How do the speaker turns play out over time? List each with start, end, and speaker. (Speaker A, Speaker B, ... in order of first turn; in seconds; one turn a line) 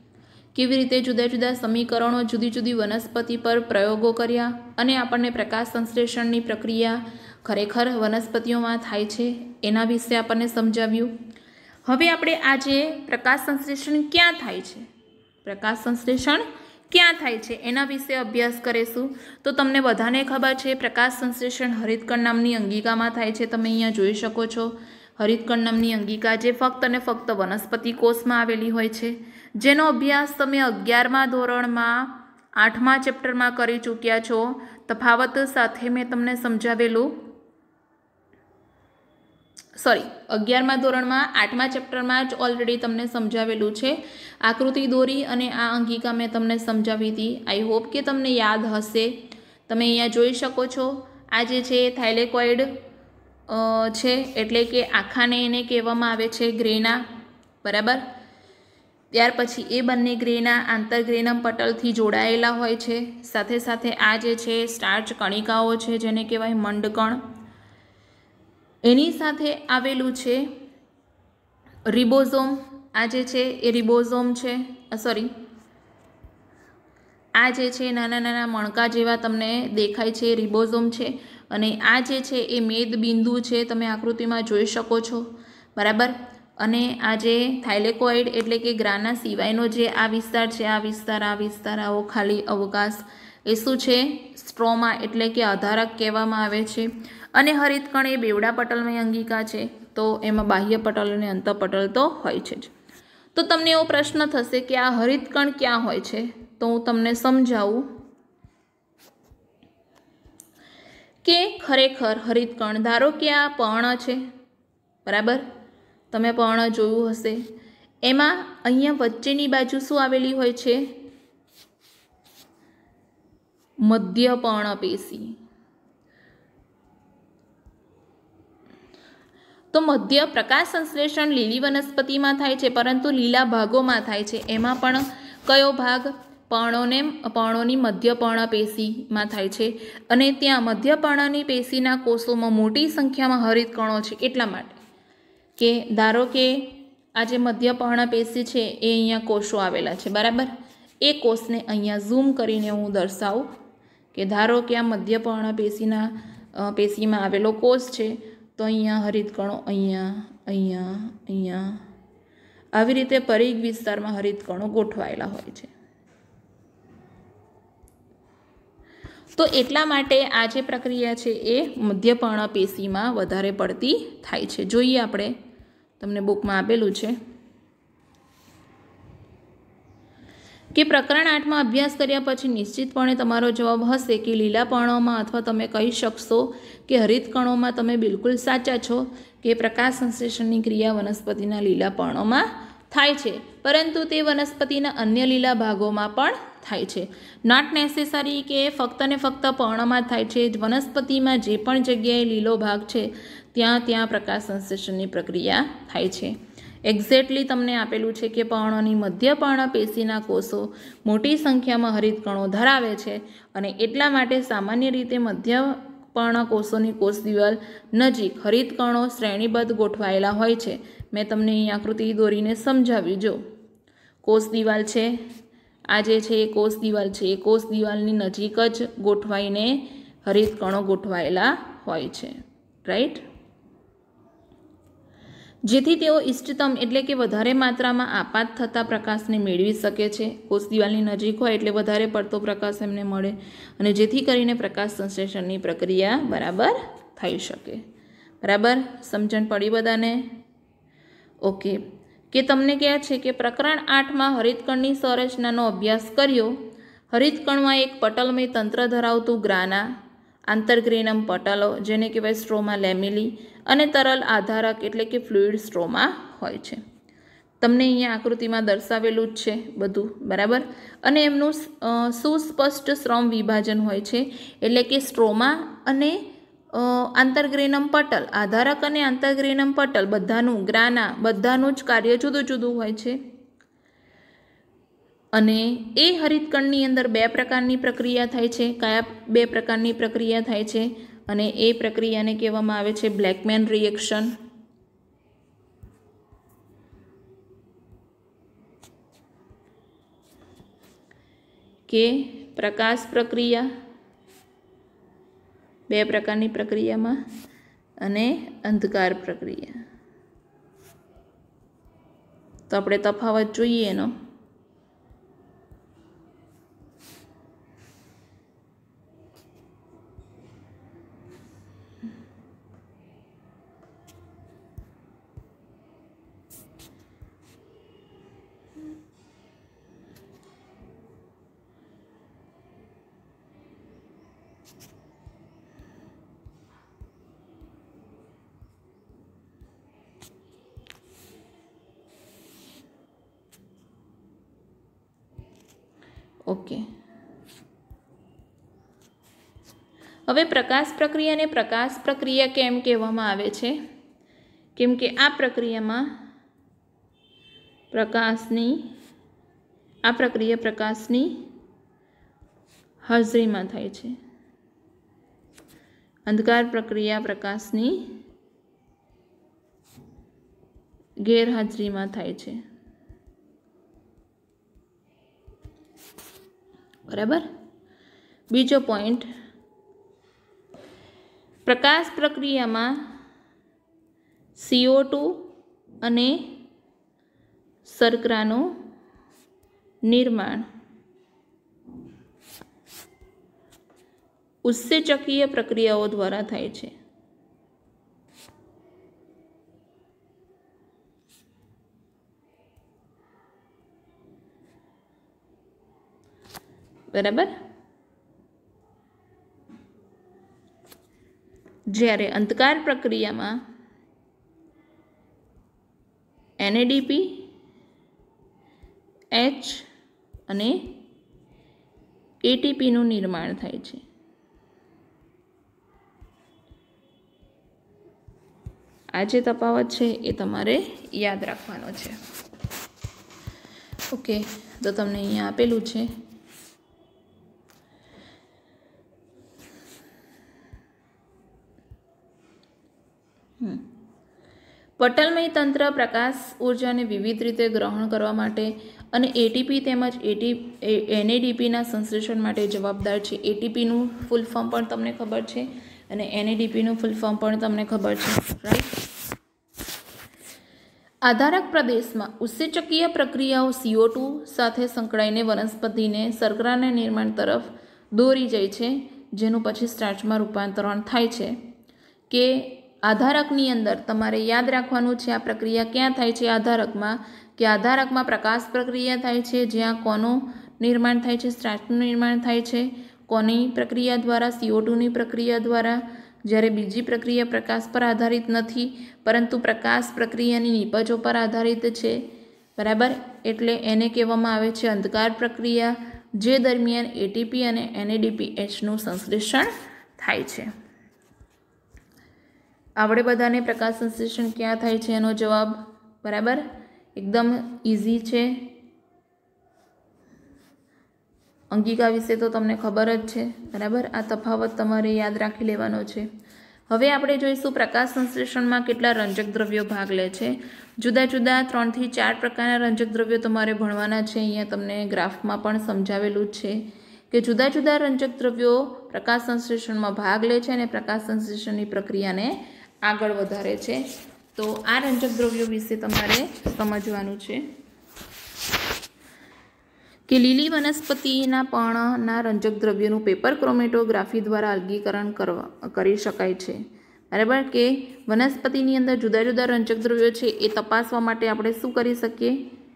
Speaker A: 0.5-11.1
Speaker A: 11.9-14.9
Speaker A: 15.4-37.2
Speaker A: 39.8-49.2
Speaker A: 49.7-52.7
Speaker A: 53.5-57.0
Speaker A: 57.6-58.0
Speaker A: 59.1-67.2
Speaker A: 68.8-70.5
Speaker A: 71.9-75.3
Speaker A: 77.4-102.7
Speaker A: 103.3-107.9
Speaker A: 111.2-114.2
Speaker A: 115.0-115.5
Speaker A: 116.1-117.4
Speaker A: 118.0-120.8
Speaker A: 123.8-125.4
Speaker A: 129.7-144.8
Speaker A: 145.6-150.5
Speaker A: 151.0-153.5
Speaker A: 154.1-161.8
Speaker A: 162.8-165.7
Speaker A: 169.3-175.3
Speaker A: 176.0-177.2
Speaker A: 180.7-206.3
Speaker A: 206.9-223.4
Speaker A: 224.2-225.1
Speaker A: 225.9-232.3
Speaker A: 232.8-233.2
Speaker A: 235.7-247.8
Speaker A: 248.4-250.3
Speaker A: 251.4-251.8
Speaker A: 252.3-256.6
Speaker A: 257.1-259.9
Speaker A: 260.5-266.8
Speaker A: 267.6-283.2
Speaker A: 285.3-294.3
Speaker A: 301.9-303.7
Speaker A: 305.9-307.2
Speaker A: 308.0-309.8
Speaker A: 312.7-314.1
Speaker A: 346.5-346.9
Speaker A: 350.3-353.8
Speaker A: 354.8-356.1
Speaker A: 357.9-358.8
Speaker A: 360.1-361.5
Speaker A: 363.1-364.2
Speaker A: 366.3-368.2
Speaker A: 371.2-372.6
Speaker A: 377.1-377.4
Speaker A: 378.5-379.3
Speaker A: 381.7-383.1
Speaker A: 384.6-385.5
Speaker A: 386.0-386.6
Speaker A: 387.9-388.7
Speaker A: 390.1-390.7
Speaker A: 394.6-396.9
Speaker A: 407.1-407.5
Speaker A: 411.9-413.6
Speaker A: 416.6-417.5
Speaker A: 419.3-419.9
Speaker A: 420.5-421.0
Speaker A: 422.4-424.0
Speaker A: 429.1-432.2
Speaker A: 434.1-436.1
Speaker A: 443.6-443.9
Speaker A: 445.0-459.0
Speaker A: 461.2-471.5
Speaker A: 472.3-492.2
Speaker A: 492.8-500.7
Speaker A: 503.0-506.6
Speaker A: 507.2-508.7
Speaker A: 511.7-516.3
Speaker A: 516.9-532.5
Speaker A: 533.0-534.0
Speaker A: 534.5-537.6
Speaker A: 540.3-546.8
Speaker A: 547.3-552.6